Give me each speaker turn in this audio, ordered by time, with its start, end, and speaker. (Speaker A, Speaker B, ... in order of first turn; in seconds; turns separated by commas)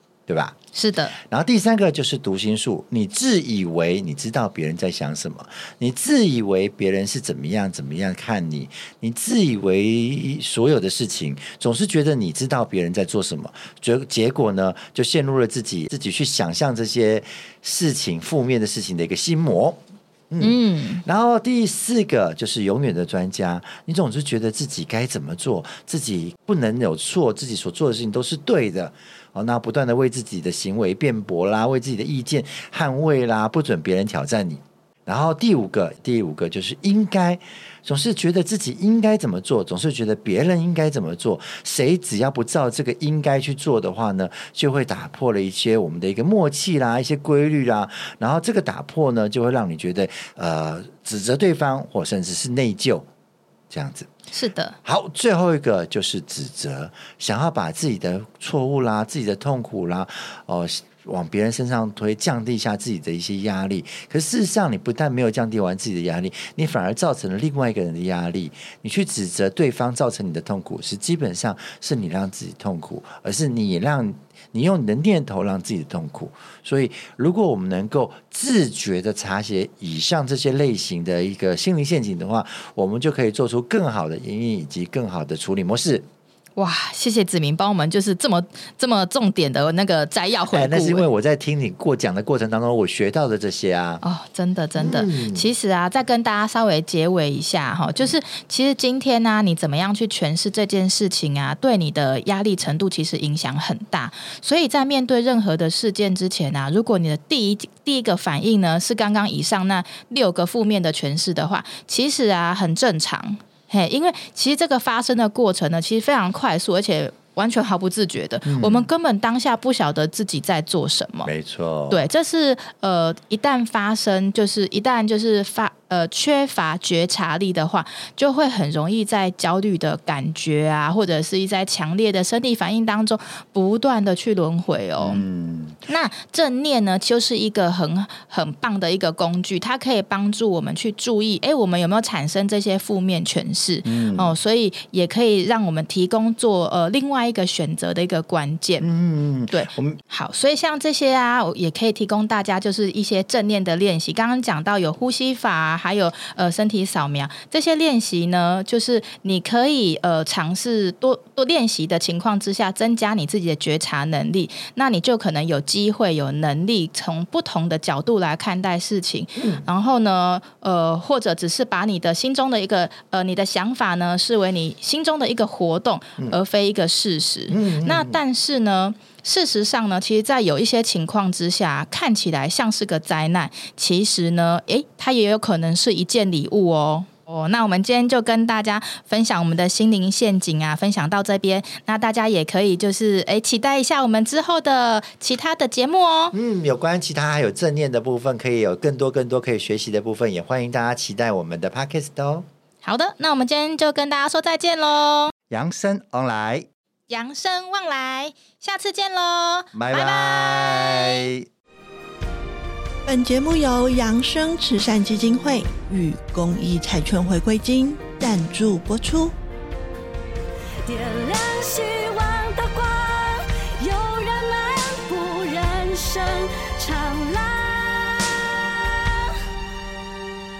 Speaker A: 0.3-0.6, Speaker B: 0.7-1.2, Speaker A: 1.2-53.1, Speaker B: 20.4-21.0, Speaker A: 53.7-54.1, Speaker B: 54.3-54.8, Speaker A: 54.9-86.1, Speaker B: 86.6-91.1, Speaker A: 90.5-94.0, Speaker B: 94.0-121.3, Speaker A: 94.8-95.5, Speaker A: 118.5-118.9, Speaker A: 121.2-122.1, Speaker B: 121.9-135.2, Speaker A: 135.0-135.8, Speaker B: 135.9-148.9, Speaker A: 143.8-144.4, Speaker A: 148.8-150.0, Speaker B: 149.5-196.3, Speaker A: 169.4-169.6, Speaker A: 177.5-178.2, Speaker A: 196.3-202.5, Speaker B: 202.8-205.3, Speaker A: 205.5-206.7, Speaker B: 207.1-211.3, Speaker A: 209.7-211.4, Speaker C: 213.1-219.3, Speaker D: 220.8-229.4